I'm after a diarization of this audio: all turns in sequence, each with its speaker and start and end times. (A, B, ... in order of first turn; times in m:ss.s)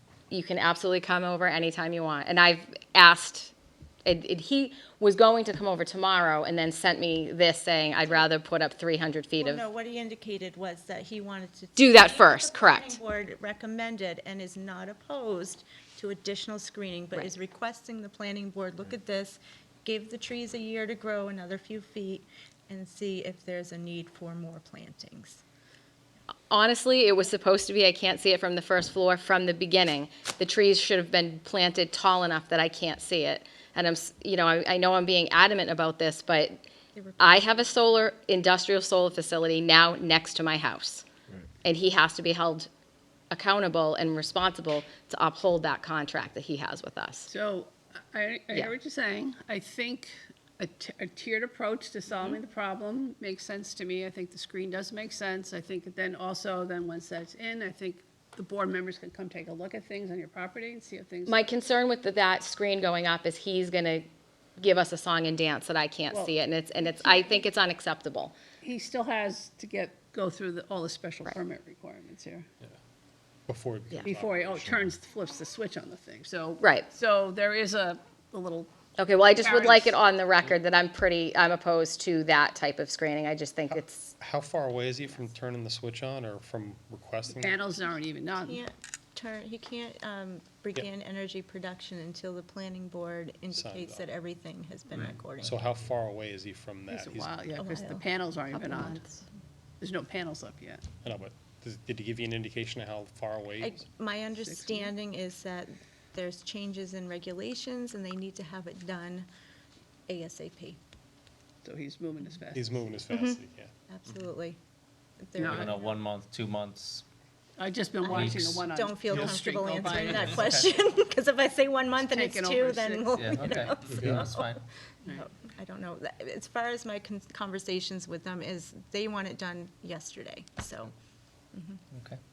0:00.3-0:03.5 A
0:04.0-0:09.6 A
0:09.4-0:25.4 B
0:11.8-0:13.0 A
0:26.5-0:36.7 A
0:36.9-0:37.7 B
0:37.2-0:41.0 A
0:41.6-0:42.7 A
0:43.3-0:47.3 A
0:47.3-1:01.4 C
1:01.2-1:04.1 A
1:04.6-1:08.3 A
1:06.8-1:07.4 C
1:08.6-1:12.4 C
1:13.5-1:14.7 D
1:14.0-1:18.7 C
1:16.6-1:16.9 A
1:19.0-1:24.1 A
1:19.4-1:20.0 C
1:24.2-1:27.8 D
1:27.3-1:28.6 C
1:28.3-1:35.6 B
1:33.5-1:34.1 D
1:34.9-1:37.4 D
1:36.9-1:39.0 C
1:37.5-1:38.0 B
1:38.5-1:39.2 A
1:39.8-1:40.8 C
1:41.0-1:43.8 D
1:43.6-1:49.3 B
1:44.4-1:44.9 C
1:50.1-1:50.8 B
1:51.6-1:52.8 C
1:52.5-1:53.7 D
1:53.1-1:54.6 B
1:55.2-1:56.0 B
1:55.4-1:55.7 C
1:55.4-1:57.0 E
1:57.6-2:00.6 C
1:58.0-2:10.9 B
1:58.1-1:58.7 E
1:59.1-1:59.4 D
1:59.9-2:00.7 E
2:02.0-2:03.8 C
2:03.1-2:04.6 E
2:03.9-2:04.3 D
2:11.5-2:11.8 B
2:11.9-2:12.2 E